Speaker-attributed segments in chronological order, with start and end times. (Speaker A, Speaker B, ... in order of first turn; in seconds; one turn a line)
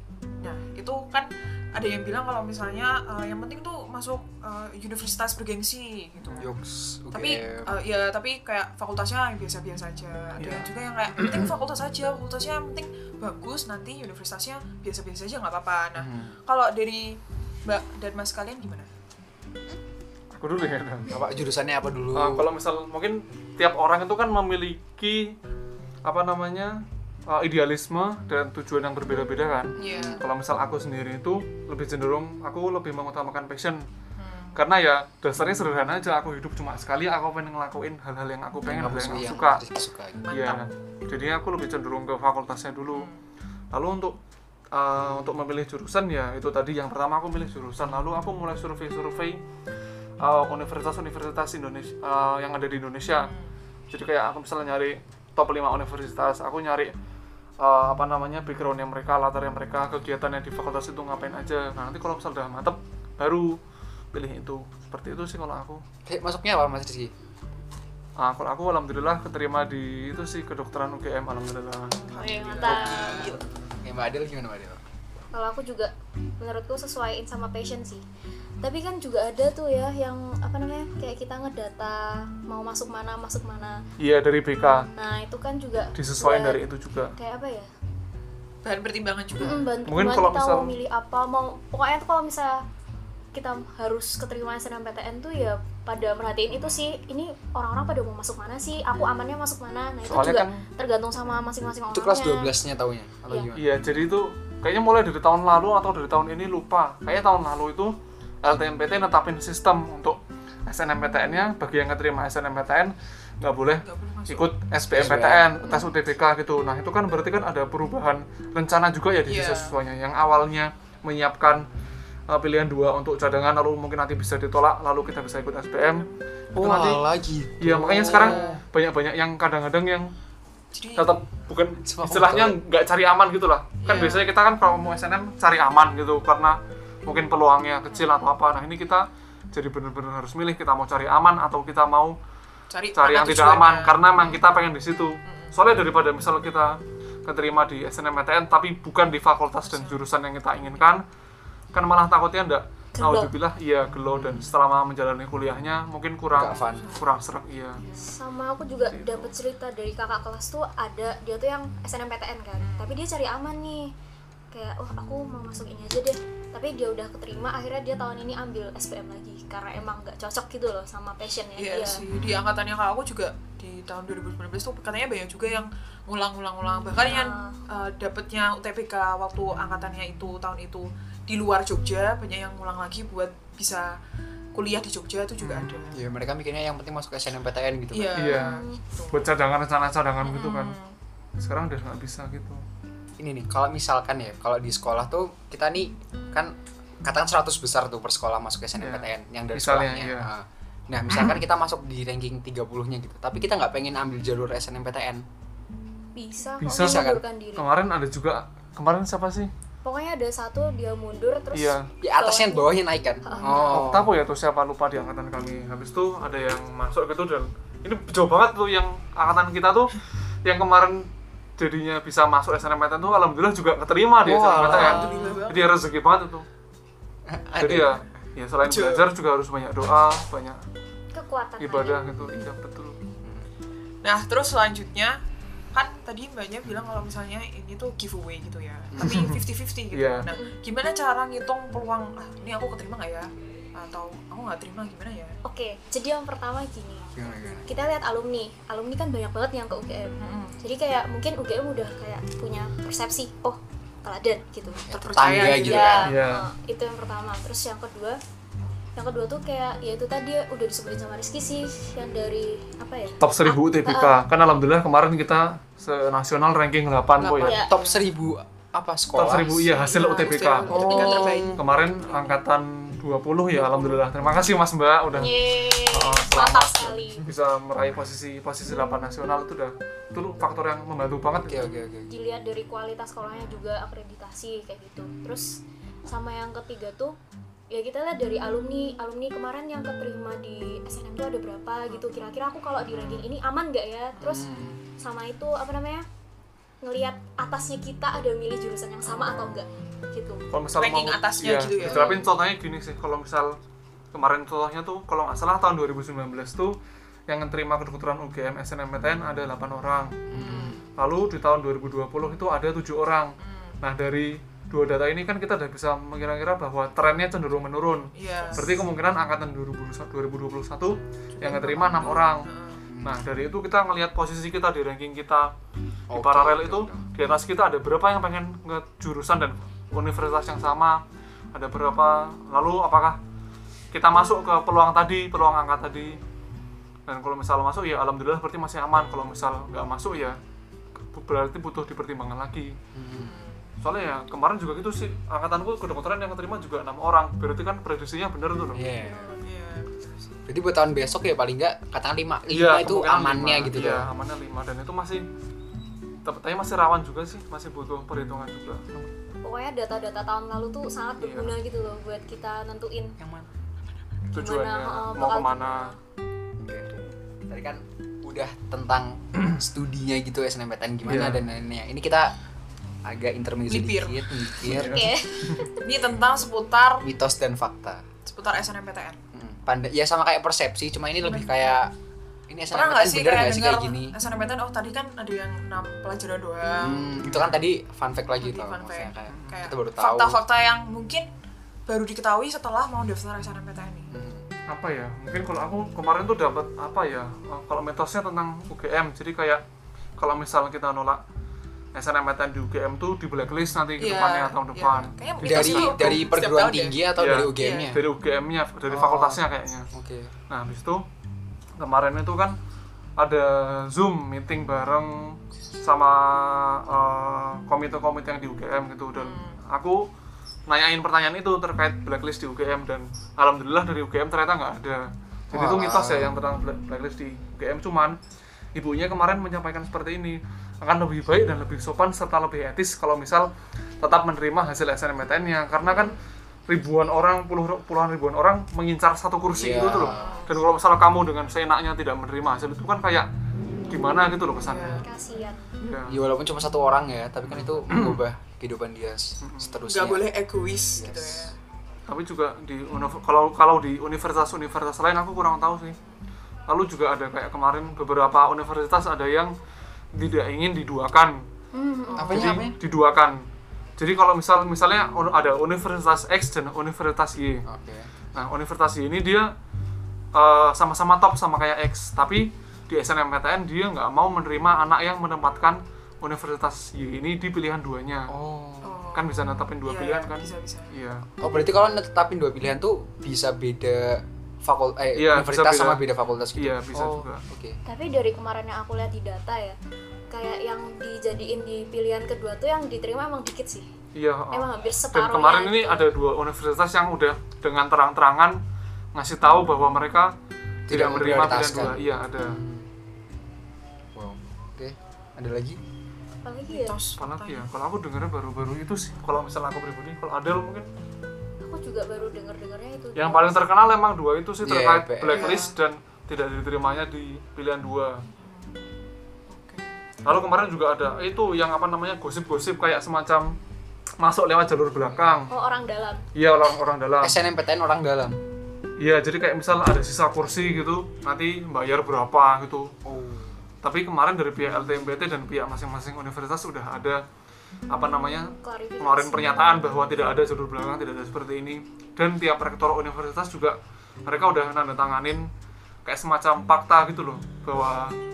Speaker A: 0.4-6.5
Speaker B: 6.4-7.7
Speaker A: 7.1-18.9
Speaker C: 10.4-10.7
Speaker B: 15.9-16.3
Speaker C: 20.3-21.1
Speaker B: 21.1-22.5
Speaker C: 22.1-25.3
Speaker C: 26.0-33.8
Speaker B: 29.8-30.2
Speaker A: 29.8-30.2
Speaker A: 34.2-34.6
Speaker C: 34.5-39.6
Speaker B: 38.6-40.3
Speaker A: 40.2-40.6
Speaker C: 40.3-43.1
Speaker A: 42.9-43.2
Speaker C: 43.7-44.1
Speaker C: 44.7-49.4
Speaker C: 50.2-53.3
Speaker C: 53.9-56.9
Speaker C: 57.6-63.6
Speaker C: 64.1-65.8
Speaker B: 66.0-67.1
Speaker C: 68.2-72.0
Speaker A: 72.0-73.4
Speaker D: 72.1-73.4
Speaker B: 72.3-74.8
Speaker D: 75.3-78.0
Speaker D: 78.6-83.8
Speaker C: 84.0-84.9
Speaker D: 85.0-86.6
Speaker C: 85.9-87.1
Speaker D: 87.2-87.7
Speaker A: 88.6-89.7
Speaker D: 89.4-92.6
Speaker C: 89.8-90.8
Speaker D: 93.3-102.6
Speaker C: 100.1-100.6
Speaker B: 101.9-103.8
Speaker C: 103.5-121.7
Speaker A: 113.8-114.5
Speaker B: 114.8-115.8
Speaker A: 119.3-119.7
Speaker C: 122.3-127.0
Speaker B: 126.5-128.6
Speaker C: 127.6-130.1
Speaker A: 128.0-128.6
Speaker A: 130.7-131.1
Speaker C: 130.9-142.2
Speaker B: 131.8-132.6
Speaker A: 133.8-134.3
Speaker A: 142.7-143.9
Speaker C: 142.9-151.0
Speaker A: 145.3-145.6
Speaker A: 149.6-150.0
Speaker C: 151.7-157.8
Speaker D: 152.9-153.3
Speaker B: 154.1-154.5
Speaker B: 156.3-156.9
Speaker D: 158.0-163.9
Speaker C: 158.9-159.3
Speaker A: 162.6-162.9
Speaker D: 164.5-172.0
Speaker A: 171.6-184.0
Speaker D: 177.1-177.6
Speaker A: 184.5-186.0
Speaker C: 185.4-185.8
Speaker B: 185.9-188.3
Speaker A: 187.9-189.3
Speaker C: 188.1-190.8
Speaker D: 188.3-188.8
Speaker A: 190.2-190.9
Speaker C: 191.4-192.6
Speaker B: 193.2-205.2
Speaker C: 198.8-200.3
Speaker D: 206.2-207.7
Speaker C: 206.6-209.5
Speaker B: 206.7-207.2
Speaker D: 209.8-212.7
Speaker C: 211.5-211.9
Speaker B: 212.0-214.1
Speaker D: 213.2-213.8
Speaker A: 213.4-213.8
Speaker C: 213.7-226.4
Speaker B: 224.2-225.3
Speaker A: 224.5-225.7
Speaker B: 227.2-228.0
Speaker C: 227.6-230.6
Speaker A: 228.7-229.1
Speaker D: 231.1-232.1
Speaker C: 231.6-233.0
Speaker A: 234.0-235.2
Speaker A: 235.7-245.4
Speaker B: 238.9-239.2
Speaker C: 239.0-239.4
Speaker C: 239.9-240.3
Speaker D: 240.3-240.6
Speaker D: 245.4-247.1
Speaker B: 247.1-247.7
Speaker D: 247.7-254.8
Speaker A: 250.2-250.6
Speaker B: 254.9-256.1
Speaker A: 254.9-256.1
Speaker D: 255.4-258.2
Speaker C: 256.0-256.5
Speaker D: 258.9-264.2
Speaker C: 263.2-267.6
Speaker A: 267.2-268.1
Speaker D: 267.4-267.7
Speaker B: 267.7-269.7
Speaker C: 269.1-281.7
Speaker A: 269.6-272.2
Speaker B: 270.7-271.0
Speaker D: 270.7-271.6
Speaker A: 273.7-274.0
Speaker D: 275.1-277.2
Speaker B: 281.3-282.1
Speaker D: 282.1-287.2
Speaker D: 287.7-294.5
Speaker B: 294.2-294.8
Speaker D: 295.0-296.0
Speaker D: 296.8-300.4
Speaker C: 300.5-303.6
Speaker A: 300.8-302.2
Speaker B: 301.7-302.3
Speaker C: 304.1-306.8
Speaker C: 307.3-322.5
Speaker B: 310.3-310.8
Speaker A: 310.4-310.8
Speaker A: 313.4-313.8
Speaker A: 318.1-318.9
Speaker A: 321.3-322.8
Speaker B: 322.9-323.2
Speaker C: 323.0-325.5
Speaker B: 326.1-327.1
Speaker C: 326.1-331.0
Speaker C: 331.5-333.2
Speaker C: 333.9-336.2
Speaker C: 337.1-340.4
Speaker C: 341.1-342.8
Speaker B: 342.9-343.4
Speaker A: 343.1-343.7
Speaker C: 343.8-348.8
Speaker B: 348.7-349.3
Speaker D: 348.9-349.4
Speaker A: 349.4-350.3
Speaker B: 350.5-354.1
Speaker C: 352.5-355.2
Speaker C: 356.2-358.9
Speaker D: 359.4-363.2
Speaker C: 361.2-361.6
Speaker B: 363.2-363.5
Speaker C: 364.3-365.9
Speaker D: 364.3-365.9
Speaker B: 366.6-372.3
Speaker C: 371.0-371.4
Speaker B: 373.0-375.1
Speaker A: 373.7-374.6
Speaker C: 374.6-375.7
Speaker D: 374.8-375.9
Speaker A: 375.8-377.0
Speaker B: 377.0-378.0
Speaker A: 378.2-379.2
Speaker B: 379.3-381.9
Speaker A: 381.2-381.7
Speaker B: 382.5-384.1
Speaker A: 382.7-387.2
Speaker B: 386.8-390.4
Speaker C: 387.2-387.6
Speaker A: 388.4-391.3
Speaker C: 389.3-389.7
Speaker A: 391.9-394.1
Speaker B: 394.1-394.4
Speaker C: 394.7-399.6
Speaker C: 400.2-401.2
Speaker C: 401.9-406.3
Speaker A: 404.0-407.9
Speaker B: 405.4-408.0
Speaker C: 407.1-409.9
Speaker B: 408.9-410.3
Speaker C: 410.5-411.0
Speaker C: 411.8-412.6
Speaker C: 413.2-420.1
Speaker A: 419.1-419.6
Speaker C: 420.7-428.2
Speaker B: 425.5-426.4
Speaker C: 428.7-436.1
Speaker C: 436.7-443.3
Speaker B: 439.5-440.4
Speaker A: 440.1-440.5
Speaker C: 443.9-445.0
Speaker A: 444.6-445.1
Speaker D: 445.0-445.6
Speaker C: 445.8-446.2
Speaker B: 446.1-450.3
Speaker C: 447.4-448.2
Speaker C: 449.4-449.8
Speaker A: 449.9-451.6
Speaker B: 450.9-451.5
Speaker C: 452.1-456.0
Speaker C: 456.7-459.5
Speaker C: 460.1-461.4
Speaker D: 461.7-462.5
Speaker A: 462.1-462.4
Speaker B: 462.1-462.8
Speaker C: 462.2-463.4
Speaker C: 464.0-467.6
Speaker B: 467.6-468.2
Speaker C: 468.3-469.5
Speaker C: 470.3-478.3
Speaker B: 478.3-479.0
Speaker A: 478.8-480.9
Speaker C: 479.1-481.3
Speaker B: 481.4-487.8
Speaker C: 485.1-486.0
Speaker C: 486.5-487.4
Speaker D: 487.9-489.8
Speaker D: 490.3-493.9
Speaker C: 494.1-498.6
Speaker D: 494.5-496.1
Speaker C: 499.1-500.3
Speaker B: 500.9-502.9
Speaker C: 500.9-502.6
Speaker B: 504.1-505.8
Speaker D: 506.4-507.0
Speaker A: 506.7-507.7
Speaker C: 507.2-510.9
Speaker D: 511.6-513.7
Speaker C: 513.1-518.2
Speaker B: 514.6-515.6
Speaker A: 515.3-515.7
Speaker A: 518.3-519.0
Speaker A: 519.5-520.0
Speaker C: 520.2-523.5
Speaker C: 524.2-525.5
Speaker D: 525.5-526.2
Speaker C: 526.3-527.4
Speaker B: 527.2-528.4
Speaker C: 529.0-532.9
Speaker B: 533.0-533.6
Speaker C: 533.8-537.2
Speaker C: 537.9-545.5
Speaker D: 538.6-539.9
Speaker C: 546.0-548.1